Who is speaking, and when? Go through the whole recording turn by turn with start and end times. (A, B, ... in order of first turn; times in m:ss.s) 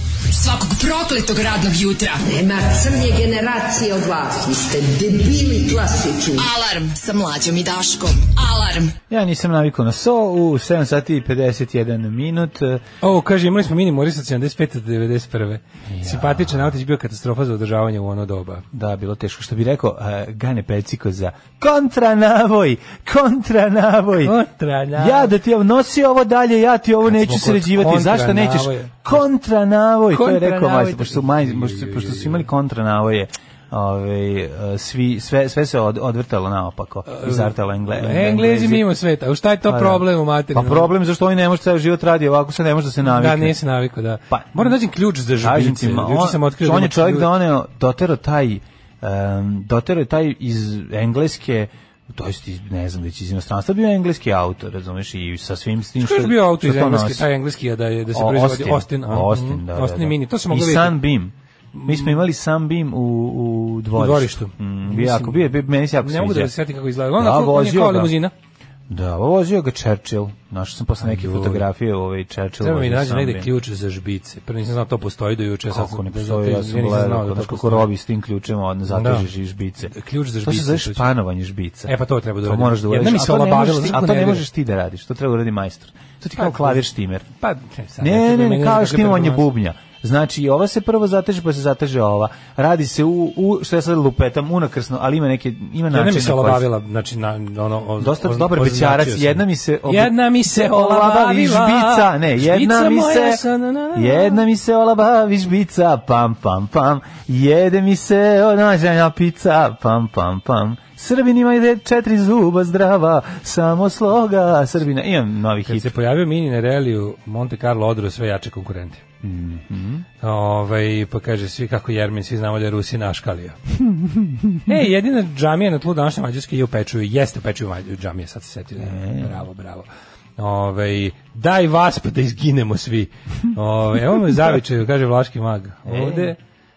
0:00.3-0:02.3 A
0:02.3-0:06.5 B
0:06.3-0:09.0 A
0:09.1-0:12.8 C
0:13.0-0:18.6 D
0:15.9-0:16.7 C
0:18.7-0:24.4 C
0:24.2-0:25.3 D
0:24.9-0:38.9 C
0:27.0-0:29.2 D
0:30.1-0:32.5 D
0:37.1-0:40.9 D
0:39.6-0:43.6 C
0:43.0-0:47.3 D
0:44.3-0:44.8 C
0:45.4-0:57.3 C
0:56.0-1:01.0 D
0:58.1-1:01.3 C
1:01.7-1:02.2 D
1:01.8-1:06.5 C
1:03.9-1:05.5 D
1:06.0-1:08.3 D
1:07.1-1:08.1 C
1:08.9-1:13.5 C
1:11.0-1:11.7 D
1:12.6-1:17.9 D
1:15.7-1:27.3 C
1:18.9-1:19.3 D
1:19.8-1:21.1 D
1:21.9-1:24.4 D
1:26.4-1:26.8 D
1:27.4-1:29.5 D
1:28.0-1:36.7 C
1:35.9-1:44.4 D
1:38.0-1:56.0 C
1:55.6-1:59.0 D
1:59.2-2:00.0 C
2:00.2-2:03.6 D
2:03.8-2:04.7 C
2:04.6-2:16.4 D
2:08.8-2:09.4 C
2:15.8-2:16.3 C